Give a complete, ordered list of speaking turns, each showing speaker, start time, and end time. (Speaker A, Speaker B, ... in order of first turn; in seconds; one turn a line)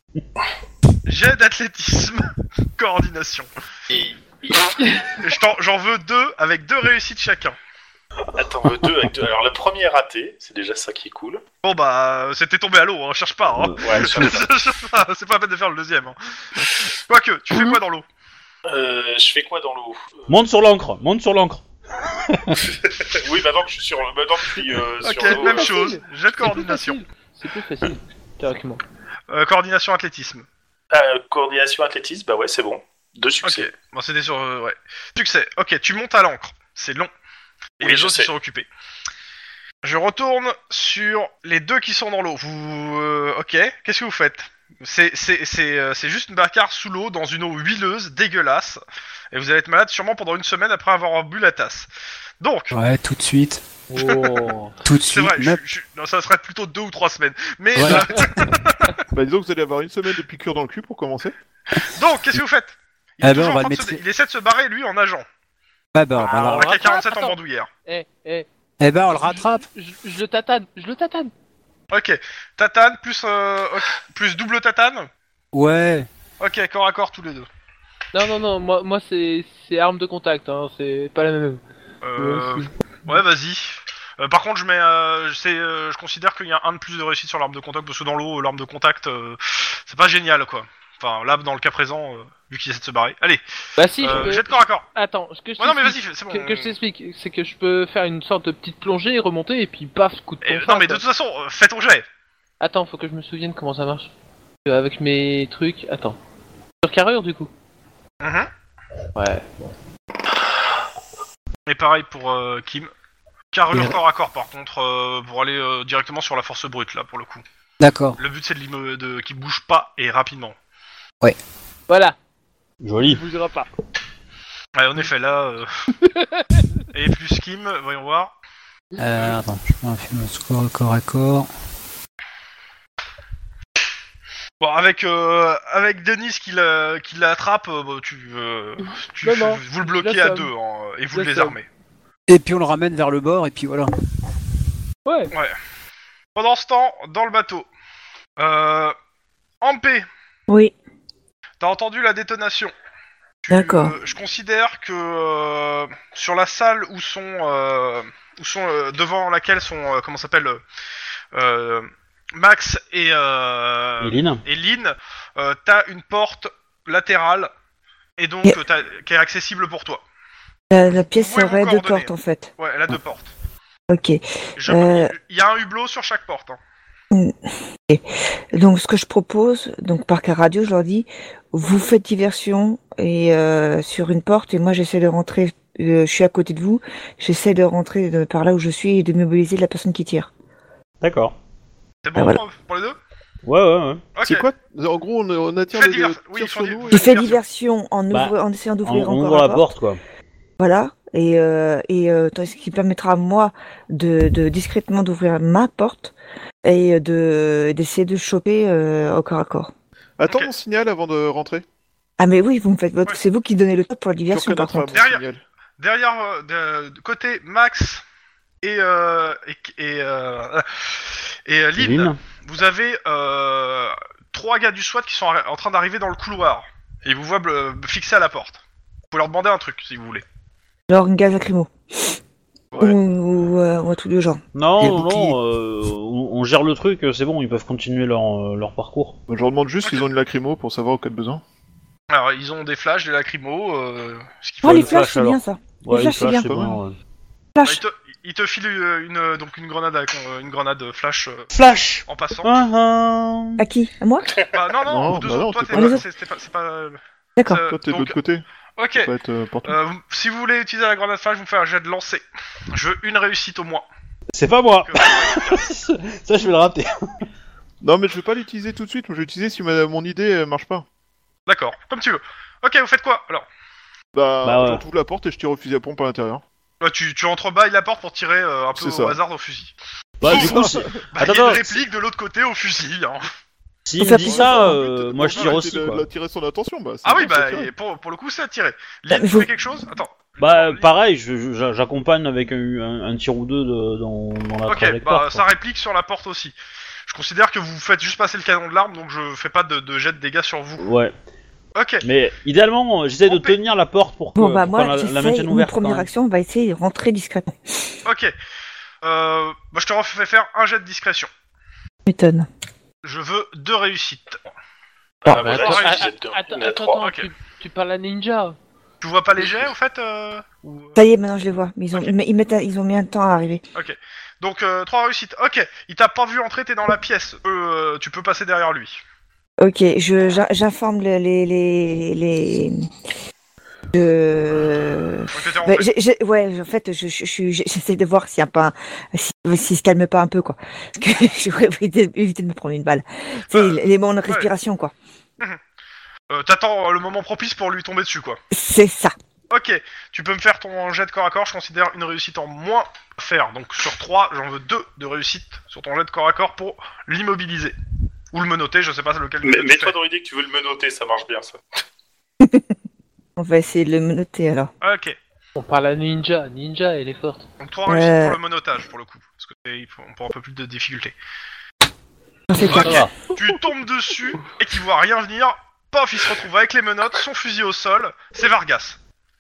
Speaker A: 1.1-3.5
Speaker B: 3.9-4.2
Speaker C: 4.7-5.1
Speaker A: 5.2-7.6
Speaker B: 8.3-11.4
Speaker A: 11.6-18.1
Speaker D: 13.6-14.5
Speaker B: 13.8-14.4
Speaker B: 18.7-20.2
Speaker D: 20.3-21.6
Speaker D: 22.2-22.7
Speaker B: 23.0-25.8
Speaker A: 25.0-27.0
Speaker C: 25.2-28.8
Speaker A: 29.3-30.5
Speaker B: 30.9-33.7
Speaker A: 33.4-37.1
Speaker A: 37.8-38.7
Speaker B: 37.8-38.3
Speaker A: 39.8-48.8
Speaker A: 49.3-51.9
Speaker A: 52.4-52.8
Speaker E: 52.7-53.6
Speaker C: 53.9-54.8
Speaker A: 54.0-54.3
Speaker E: 54.8-55.6
Speaker A: 55.0-59.1
Speaker E: 57.8-58.5
Speaker F: 59.1-61.4
Speaker A: 61.9-65.2
Speaker E: 63.2-64.0
Speaker E: 65.9-66.7
Speaker A: 66.2-67.7
Speaker C: 66.2-68.5
Speaker E: 68.8-69.7
Speaker C: 69.1-71.3
Speaker A: 71.9-75.1
Speaker E: 75.5-76.1
Speaker A: 76.4-77.5
Speaker C: 78.1-81.6
Speaker A: 82.0-93.4
Speaker C: 82.2-82.7
Speaker C: 93.8-101.0
Speaker A: 94.0-94.9
Speaker A: 95.6-96.8
Speaker A: 100.4-102.0
Speaker C: 102.6-104.1
Speaker C: 104.7-106.2
Speaker C: 106.8-107.5
Speaker A: 108.2-108.5
Speaker C: 109.2-109.7
Speaker A: 111.7-112.9
Speaker A: 113.5-117.4
Speaker E: 117.8-118.2
Speaker A: 118.2-120.5
Speaker C: 121.9-122.2
Speaker D: 122.8-123.2
Speaker C: 123.0-123.7
Speaker A: 124.8-125.7
Speaker A: 126.9-128.3
Speaker C: 128.9-129.3
Speaker E: 129.0-131.5
Speaker A: 134.6-141.7
Speaker C: 139.2-140.5
Speaker C: 141.1-141.6
Speaker E: 142.3-143.9
Speaker C: 145.1-145.3
Speaker A: 146.3-147.7
Speaker A: 148.4-148.9
Speaker A: 149.6-150.1
Speaker G: 150.5-150.7
Speaker A: 151.6-152.7
Speaker A: 153.4-160.6
Speaker G: 153.5-153.9
Speaker A: 161.3-167.5
Speaker D: 164.0-164.4
Speaker A: 168.2-170.0
Speaker G: 170.7-172.5
Speaker A: 171.1-173.3
Speaker G: 173.9-175.1
Speaker A: 174.6-176.6
Speaker G: 177.1-177.4
Speaker G: 177.9-190.3
Speaker D: 191.0-191.3
Speaker A: 192.0-193.0
Speaker G: 192.2-192.4
Speaker D: 193.5-194.1
Speaker A: 194.2-194.5
Speaker F: 194.2-197.3
Speaker A: 195.7-197.4
Speaker G: 196.9-199.7
Speaker D: 198.1-200.0
Speaker G: 200.6-206.1
Speaker G: 206.6-209.7
Speaker F: 210.2-211.6
Speaker G: 212.2-215.0
Speaker F: 214.3-215.4
Speaker A: 214.9-215.2
Speaker A: 215.8-218.0
Speaker A: 218.6-228.6
Speaker D: 221.8-222.2
Speaker A: 229.1-230.2
Speaker G: 230.9-232.2
Speaker G: 232.8-234.4
Speaker D: 234.6-239.2
Speaker E: 234.8-235.3
Speaker F: 239.3-241.4
Speaker A: 242.1-245.0
Speaker G: 244.6-246.6
Speaker D: 244.6-247.0
Speaker F: 246.2-246.8
Speaker G: 247.6-247.8
Speaker A: 247.6-251.5
Speaker D: 251.5-253.6
Speaker A: 252.1-252.7
Speaker G: 253.6-254.3
Speaker A: 254.5-258.2
Speaker F: 254.8-256.0
Speaker G: 255.7-256.0
Speaker G: 257.4-257.6
Speaker F: 257.7-258.4
Speaker A: 258.8-259.1
Speaker F: 259.0-259.8
Speaker A: 259.6-263.9
Speaker D: 264.3-267.3
Speaker A: 264.8-265.7
Speaker F: 267.8-270.9
Speaker A: 271.5-273.5
Speaker F: 274.1-276.4
Speaker D: 274.4-274.8
Speaker A: 276.8-279.7
Speaker F: 278.8-279.2
Speaker D: 280.2-281.8
Speaker F: 280.2-281.1
Speaker A: 280.2-283.3
Speaker D: 283.9-286.1
Speaker G: 284.0-284.8
Speaker F: 284.2-287.7
Speaker A: 287.0-290.9
Speaker G: 289.1-289.5
Speaker D: 290.4-295.5
Speaker A: 294.7-296.6
Speaker A: 297.1-300.9
Speaker D: 300.8-301.1
Speaker A: 301.8-302.0
Speaker D: 302.0-306.1
Speaker A: 303.3-303.6
Speaker G: 304.4-307.6
Speaker A: 308.1-308.3
Speaker A: 309.0-311.3
Speaker G: 312.1-312.5
Speaker A: 313.0-314.4
Speaker B: 315.2-317.0
Speaker C: 315.3-318.6
Speaker A: 315.3-316.1
Speaker A: 317.0-317.3
Speaker A: 319.0-321.0
Speaker G: 321.0-323.6
Speaker A: 323.8-329.0
Speaker G: 329.6-332.9
Speaker G: 333.9-344.9
Speaker A: 335.3-335.9
Speaker A: 343.5-344.5
Speaker A: 346.3-348.4
Speaker G: 348.5-349.1
Speaker A: 349.5-357.7
Speaker A: 358.3-359.9
Speaker B: 359.4-361.6
Speaker G: 362.4-362.7
Speaker G: 363.4-364.7
Speaker A: 364.8-365.2
Speaker C: 365.6-367.4
Speaker A: 367.6-371.1
Speaker G: 367.9-368.4
Speaker G: 372.5-373.1
Speaker A: 372.6-379.0
Speaker C: 372.8-373.1